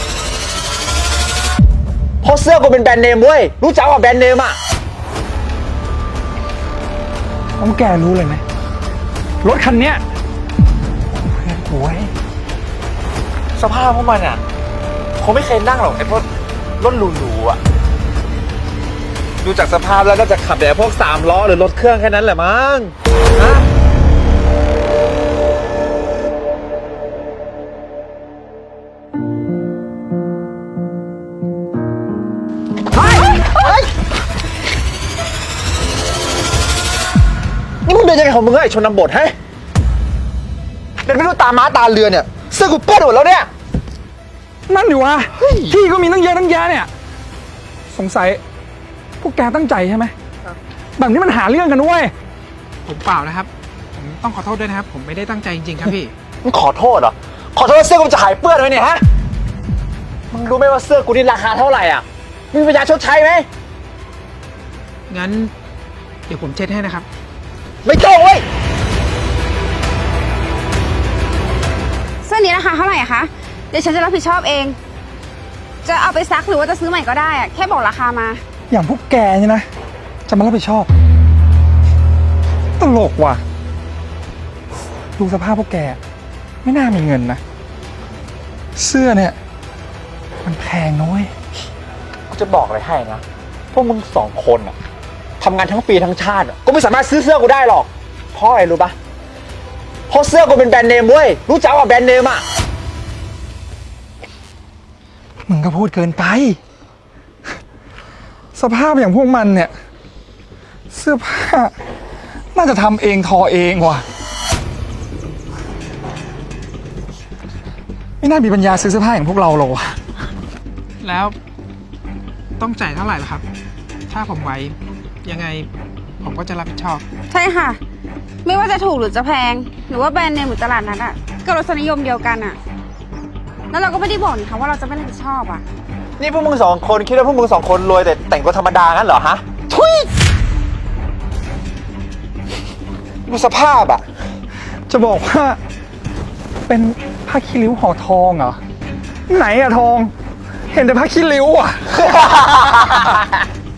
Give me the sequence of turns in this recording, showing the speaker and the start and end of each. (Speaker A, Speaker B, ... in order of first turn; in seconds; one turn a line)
Speaker A: 2.2-4.6
Speaker B: 7.6-8.4
Speaker B: 9.4-10.0
Speaker B: 11.1-12.1
Speaker A: 13.6-14.4
Speaker A: 15.2-16.2
Speaker A: 16.8-17.6
Speaker A: 19.4-23.6
Speaker A: 32.9-33.9
Speaker A: 37.8-39.3
Speaker A: 41.0-43.5
Speaker B: 44.7-46.9
Speaker B: 47.9-48.4
Speaker B: 49.2-50.1
Speaker B: 51.0-52.1
Speaker C: 52.8-56.1
Speaker A: 56.4-59.0
Speaker A: 60.3-63.5
Speaker C: 65.1-65.5
Speaker C: 66.3-67.0
Speaker A: 67.8-68.4
Speaker D: 72.2-74.8
Speaker D: 75.8-78.4
Speaker B: 78.7-79.7
Speaker B: 80.3-80.9
Speaker B: 82.8-83.4
Speaker B: 85.2-86.0
Speaker B: 86.6-87.4
Speaker B: 88.7-89.4
Speaker B: 90.4-91.3
Speaker A: 92.3-94.8
Speaker A: 95.4-98.9
Speaker A: 100.1-102.4
Speaker B: 105.5-106.6
Speaker B: 108.5-109.7
Speaker B: 110.9-111.7
Speaker B: 112.5-114.0
Speaker B: 118.2-120.0
Speaker C: 121.0-121.3
Speaker C: 122.6-123.4
Speaker C: 124.1-125.7
Speaker C: 126.2-127.0
Speaker D: 127.3-127.8
Speaker D: 128.4-132.6
Speaker D: 133.7-135.6
Speaker A: 136.2-140.1
Speaker A: 143.2-144.0
Speaker B: 144.9-145.6
Speaker B: 146.7-148.6
Speaker B: 149.3-150.1
Speaker B: 150.7-152.1
Speaker A: 152.4-153.0